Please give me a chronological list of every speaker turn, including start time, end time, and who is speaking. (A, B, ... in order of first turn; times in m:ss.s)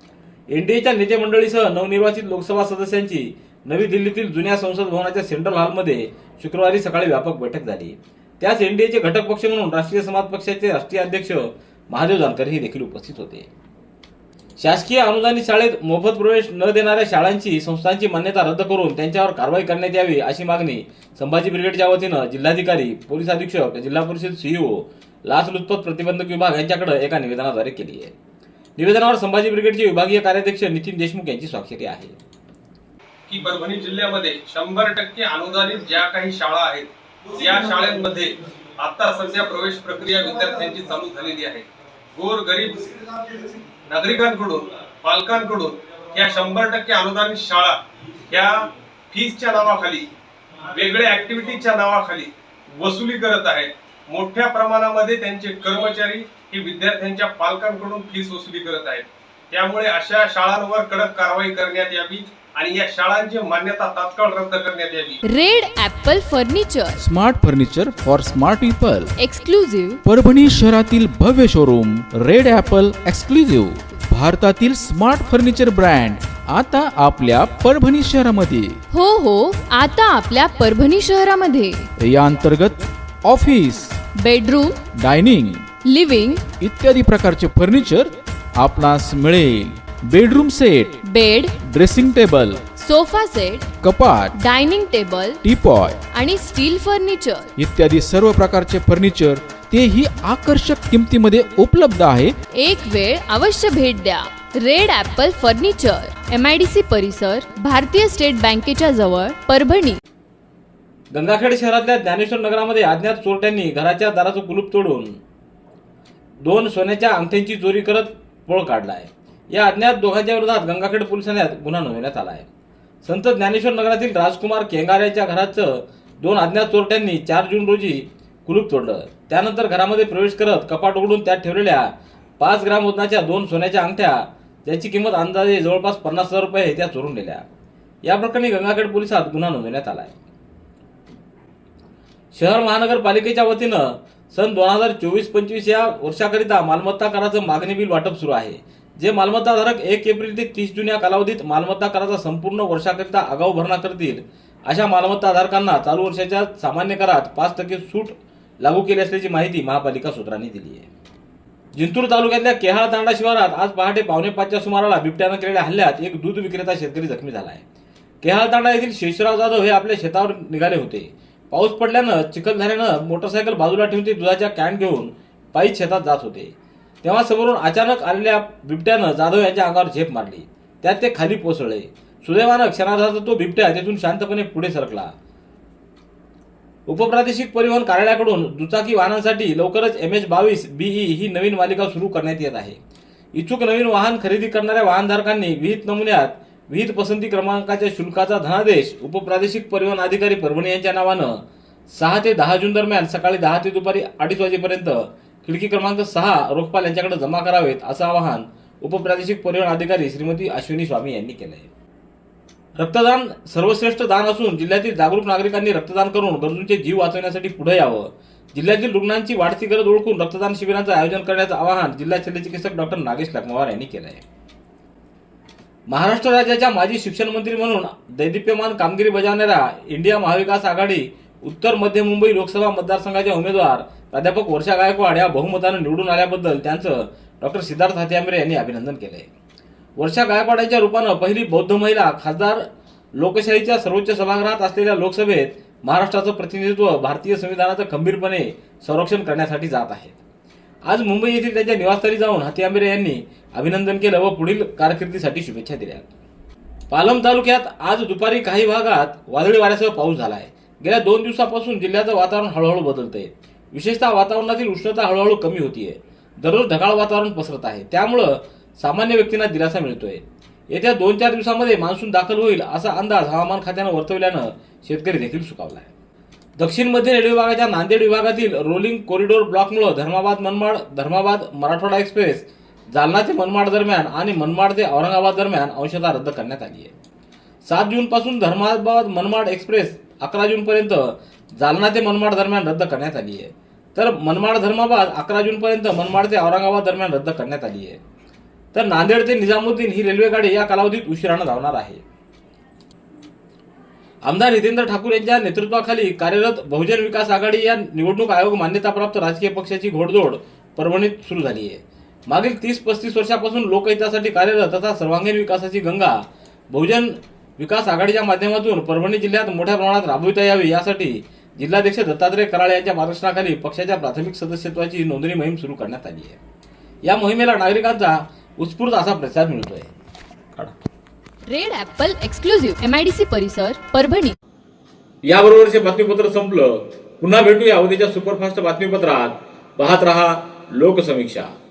0:00.5-0:13.5 A
0:14.6-0:28.1 A
0:28.8-0:32.2 A
0:33.3-0:50.1 B
0:50.7-1:05.2 B
1:05.2-1:07.0 C
1:07.0-1:09.1 D
1:09.2-1:10.0 C
1:10.0-1:18.8 D
1:18.9-1:21.9 C
1:22.0-1:24.0 D
1:24.2-1:24.8 C
1:24.9-1:25.7 D
1:25.8-1:26.4 C
1:26.6-1:31.0 D
1:31.0-1:31.6 C
1:31.6-1:32.7 D
1:32.7-1:33.7 C
1:33.8-1:34.4 D
1:34.4-1:35.4 C
1:35.4-1:36.0 D
1:36.1-1:37.5 C
1:37.6-1:42.4 D
1:42.5-1:50.0 C
1:51.1-1:55.2 A
1:56.4-2:02.5 A
2:03.0-2:17.4 A
2:18.0-2:20.1 A
2:22.3-2:40.9 A
2:41.8-2:47.6 A
2:48.2-3:05.1 A
3:06.9-3:12.8 A
3:13.4-3:21.4 A
3:21.9-3:31.7 A
3:32.8-3:44.2 A
3:45.9-3:59.3 A
4:00.0-4:02.6 A
4:03.2-4:10.2 A
4:10.9-4:16.1 A
4:16.9-4:35.9 A
4:36.6-4:46.9 A
4:47.7-4:51.1 A
4:51.6-4:58.0 A
4:58.7-5:02.0 A
5:04.2-5:26.4 A
5:27.1-5:29.9 A
5:31.5-5:34.4 C
5:35.3-5:41.5 A